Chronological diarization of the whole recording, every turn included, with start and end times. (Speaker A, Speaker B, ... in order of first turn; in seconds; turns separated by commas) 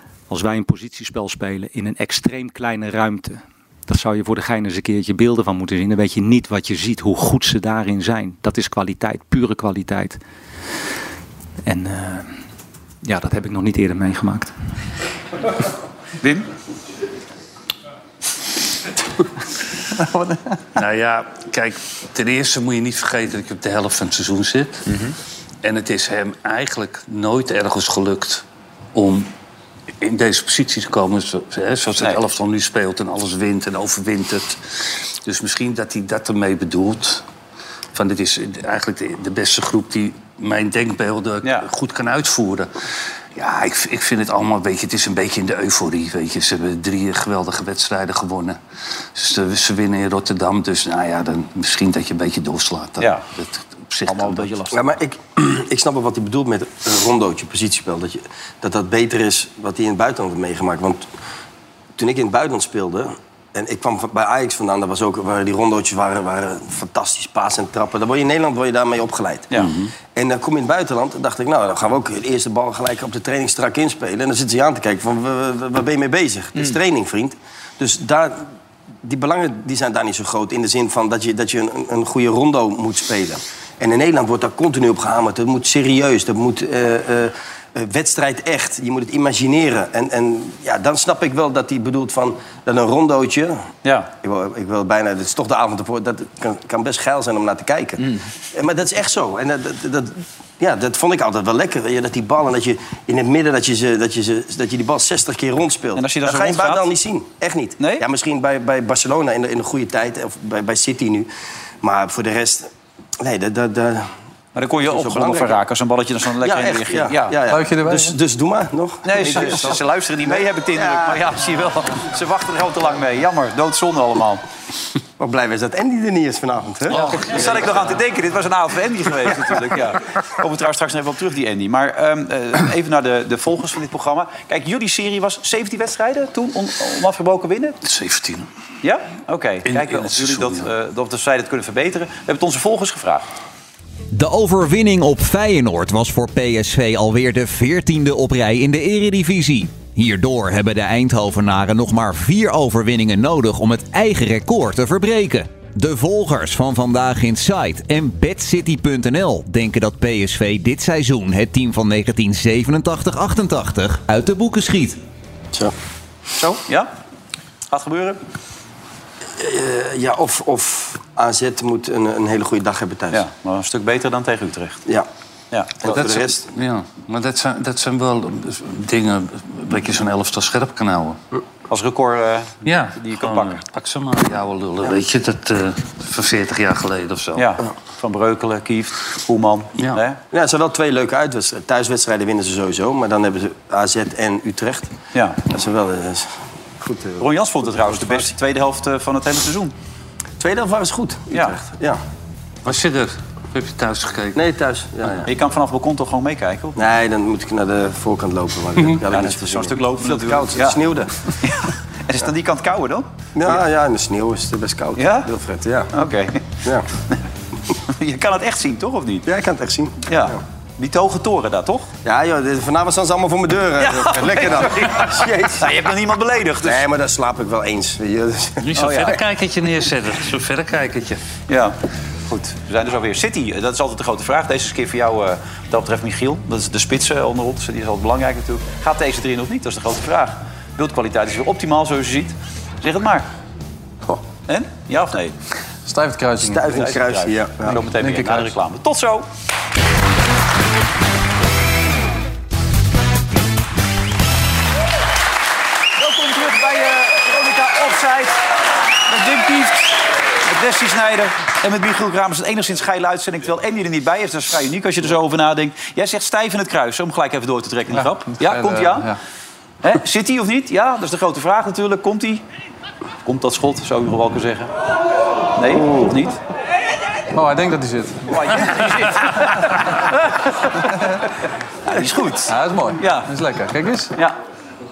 Speaker A: 0.3-10.2, Speaker A: 11.7-12.3, Speaker A: 13.0-14.5, Speaker B: 16.2-16.5, Speaker C: 20.1-20.4, Speaker D: 20.8-24.9, Speaker B: 24.9-25.1, Speaker D: 25.6-28.4, Speaker D: 28.9-29.3, Speaker D: 30.0-37.2, Speaker D: 37.9-42.7, Speaker D: 43.4-48.6, Speaker D: 49.1-54.5, Speaker B: 53.0-53.2, Speaker B: 54.1-54.9, Speaker E: 54.7-61.1, Speaker E: 62.0-69.5, Speaker B: 69.5-69.8, Speaker D: 69.5-69.9, Speaker E: 70.2-78.5, Speaker E: 79.0-93.7, Speaker E: 94.2-111.3, Speaker B: 98.0-98.2, Speaker B: 106.0-106.9, Speaker B: 107.8-108.1, Speaker E: 111.8-114.1, Speaker B: 114.6-117.4, Speaker E: 114.8-115.6, Speaker E: 116.4-121.3, Speaker C: 117.5-118.2, Speaker B: 119.0-124.4, Speaker E: 125.2-127.7, Speaker D: 127.0-127.8, Speaker B: 127.0-137.8, Speaker D: 137.8-138.5, Speaker B: 138.8-143.2, Speaker D: 139.7-140.7, Speaker F: 144.1-165.0, Speaker B: 166.4-166.9, Speaker B: 167.7-168.2, Speaker E: 169.3-173.2, Speaker B: 173.1-174.8, Speaker B: 175.5-175.9, Speaker E: 175.8-176.5, Speaker D: 175.8-181.2, Speaker B: 181.7-183.6, Speaker D: 182.6-187.6, Speaker B: 187.4-190.2, Speaker E: 190.3-194.9, Speaker B: 195.1-195.4, Speaker E: 195.5-198.3, Speaker B: 197.2-199.7, Speaker E: 200.4-202.0, Speaker D: 202.7-204.4, Speaker E: 204.3-205.3, Speaker B: 205.3-206.8, Speaker E: 206.8-211.1, Speaker D: 208.8-209.0, Speaker B: 209.1-210.8, Speaker B: 211.4-213.6, Speaker E: 213.4-215.9, Speaker B: 215.0-215.3, Speaker B: 215.9-216.5, Speaker B: 217.9-219.3, Speaker E: 219.3-220.4, Speaker B: 220.1-221.9, Speaker E: 222.1-225.9, Speaker B: 223.8-226.9, Speaker E: 226.6-229.2, Speaker D: 228.6-231.2, Speaker B: 228.8-229.2, Speaker B: 231.5-231.8, Speaker B: 232.3-243.3, Speaker B: 244.5-245.3, Speaker C: 245.9-246.9, Speaker E: 246.4-247.8, Speaker B: 246.7-249.3, Speaker C: 247.7-248.5, Speaker B: 256.0-258.4, Speaker B: 259.1-269.1, Speaker C: 267.9-269.2, Speaker B: 269.8-272.4, Speaker B: 273.2-274.7, Speaker B: 275.6-276.4, Speaker E: 275.7-276.1, Speaker C: 277.3-278.7, Speaker B: 278.3-283.3, Speaker C: 282.5-284.1